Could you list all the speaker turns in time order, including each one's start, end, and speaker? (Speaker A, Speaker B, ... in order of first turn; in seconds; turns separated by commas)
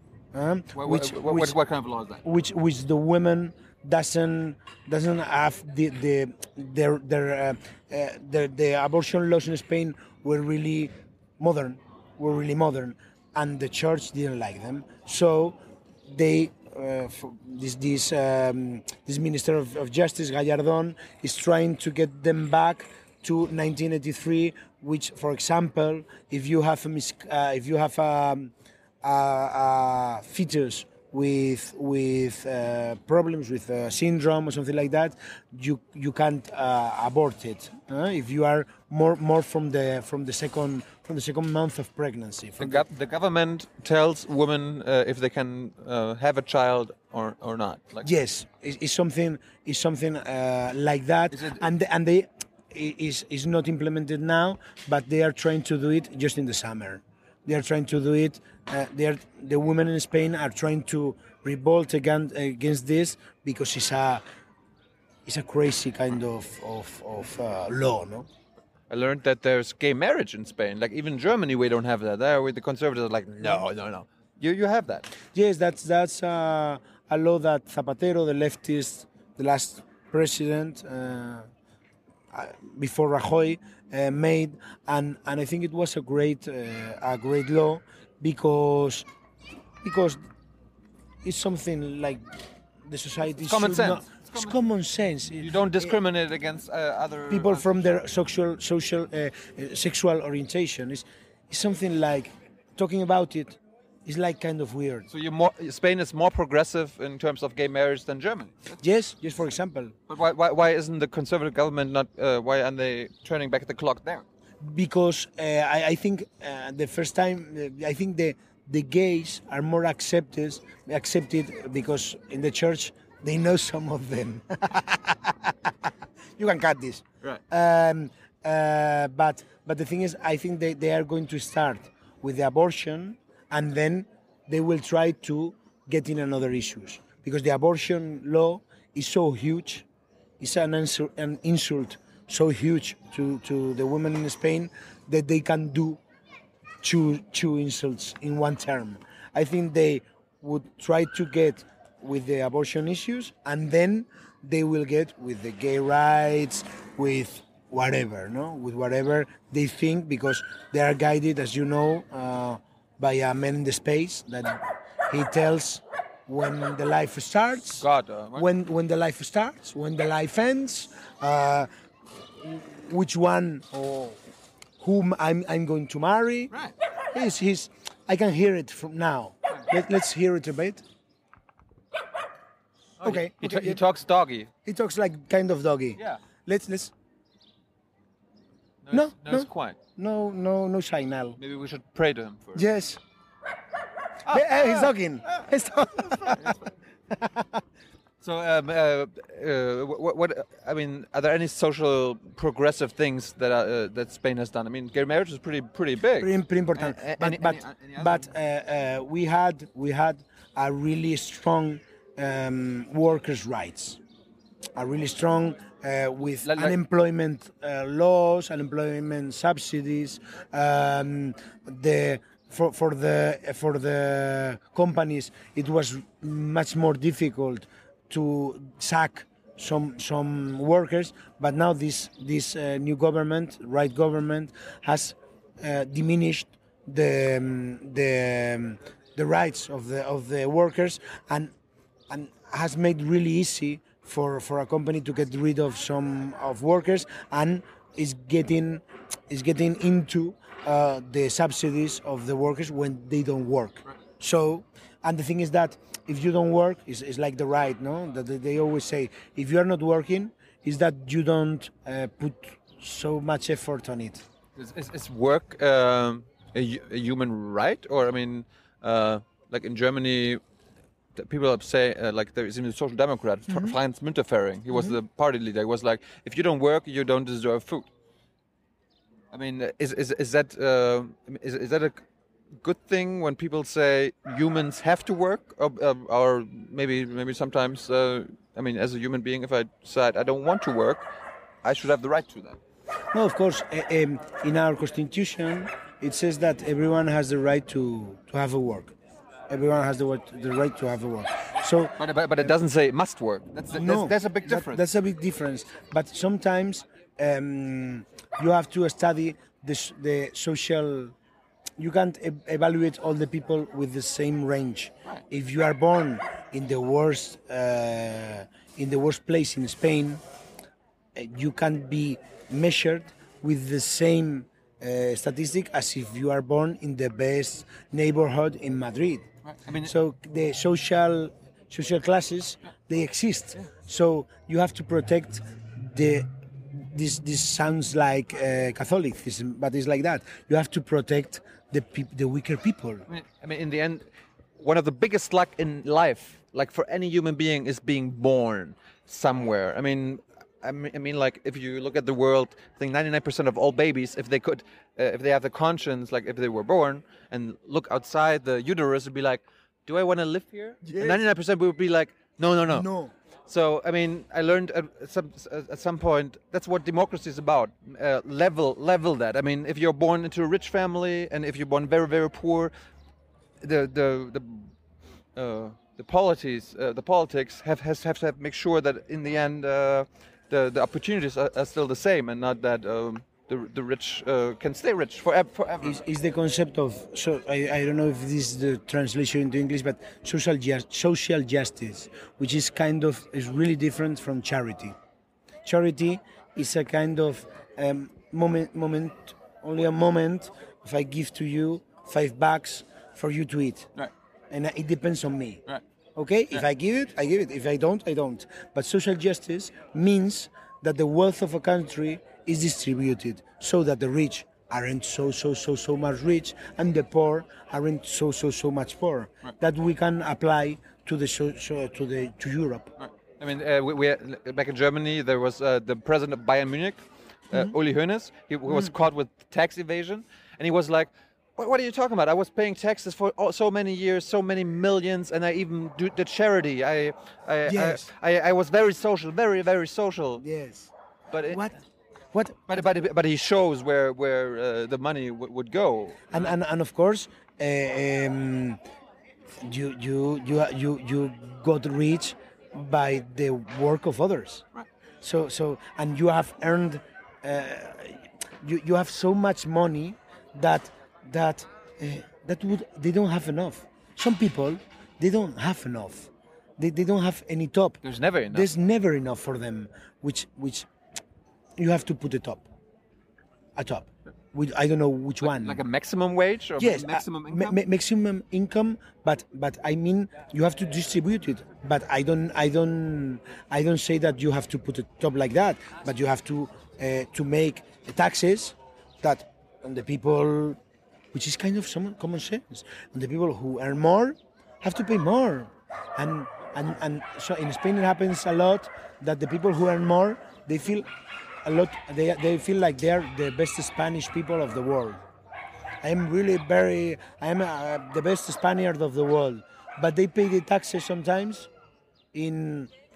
Speaker A: 0.3-1.6, Speaker B: 0.8-2.2, Speaker A: 2.2-42.8, Speaker B: 42.6-48.1, Speaker A: 48.0-64.2, Speaker B: 51.3-51.6, Speaker A: 65.2-68.3, Speaker B: 68.9-75.1, Speaker A: 75.3-81.5, Speaker A: 82.3-89.1, Speaker A: 89.8-90.2, Speaker A: 91.2-95.9, Speaker B: 93.4-94.6, Speaker B: 95.4-97.7, Speaker A: 97.3-105.1, Speaker B: 105.1-108.7, Speaker A: 108.8-109.9, Speaker B: 110.1-114.2, Speaker A: 114.6-139.9, Speaker A: 140.4-146.0, Speaker A: 146.8-174.2, Speaker B: 167.8-168.4, Speaker A: 174.8-176.5, Speaker A: 177.1-180.8, Speaker B: 183.0-184.5, Speaker A: 183.0-183.8, Speaker A: 184.6-186.9, Speaker B: 188.8-189.8, Speaker A: 188.9-191.4, Speaker B: 191.4-192.7, Speaker A: 192.6-193.0, Speaker B: 194.2-194.9, Speaker A: 194.3-197.6, Speaker B: 196.3-196.6, Speaker B: 198.2-208.3, Speaker A: 206.2-214.0, Speaker A: 214.7-241.5, Speaker B: 216.4-216.8, Speaker A: 242.1-264.2, Speaker B: 264.6-270.4, Speaker B: 271.1-277.9, Speaker B: 279.3-282.0, Speaker B: 282.6-291.1, Speaker B: 291.6-292.6, Speaker A: 293.1-298.9, Speaker A: 299.5-302.0, Speaker B: 302.0-304.8, Speaker A: 303.7-311.1, Speaker A: 311.8-320.2, Speaker A: 321.1-329.3, Speaker B: 329.4-329.9, Speaker A: 329.8-343.1, Speaker B: 343.1-344.1, Speaker B: 344.6-362.9, Speaker A: 360.8-361.2, Speaker A: 362.7-363.1, Speaker B: 363.5-372.7, Speaker B: 373.6-374.7, Speaker B: 375.4-386.0, Speaker A: 385.8-395.0, Speaker A: 395.6-403.9, Speaker A: 404.5-405.6, Speaker A: 406.1-422.9, Speaker B: 423.0-440.4, Speaker A: 437.7-438.1, Speaker A: 440.4-440.9, Speaker B: 441.3-441.7, Speaker A: 441.5-441.8, Speaker A: 442.3-442.7, Speaker B: 442.7-446.6, Speaker A: 446.3-448.8, Speaker A: 449.6-454.6, Speaker A: 455.2-468.0, Speaker B: 468.0-468.7, Speaker A: 468.5-470.9, Speaker A: 471.8-472.6, Speaker A: 473.8-475.8, Speaker B: 475.4-477.8, Speaker A: 476.8-490.8, Speaker A: 491.3-501.1, Speaker A: 501.6-505.2, Speaker A: 506.0-511.7, Speaker A: 512.3-512.9